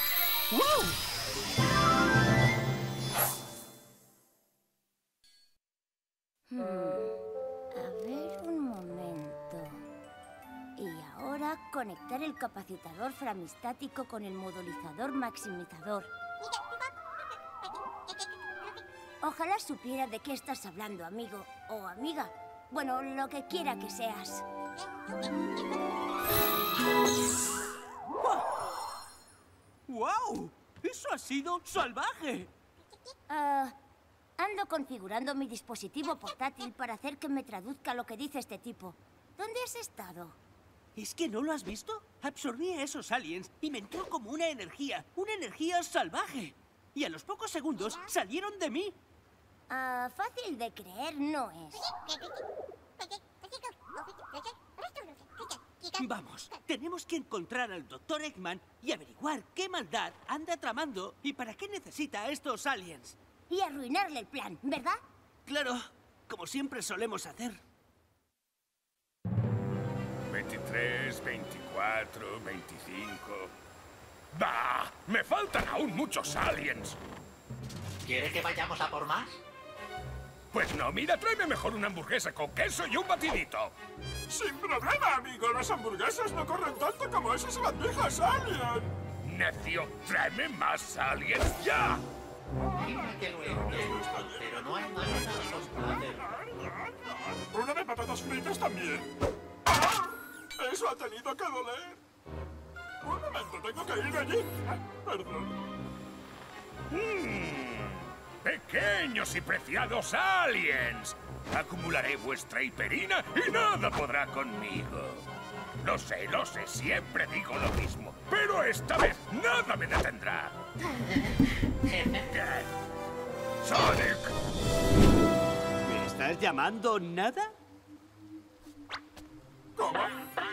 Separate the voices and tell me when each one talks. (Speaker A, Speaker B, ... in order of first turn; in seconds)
Speaker A: 0.5-1.0, 28.2-28.7, 29.9-32.5, 41.0-49.0, 55.9-63.2, 65.5-67.6, 125.8-127.5
Speaker B: 6.5-7.2, 7.8-9.8, 10.8-16.1, 19.2-24.5, 33.3-33.8, 34.4-40.4, 49.7-52.0, 63.5-65.0
Speaker C: 70.3-73.5, 74.3-77.0, 80.5-83.7, 89.2-92.0, 106.9-115.3, 115.8-120.5, 122.3-122.7, 123.6-124.3
Speaker D: 78.0-79.4, 92.8-96.5, 120.8-122.3
Speaker E: 84.3-88.9, 92.7-99.1, 99.7-102.0, 103.0-105.7, 129.8-130.2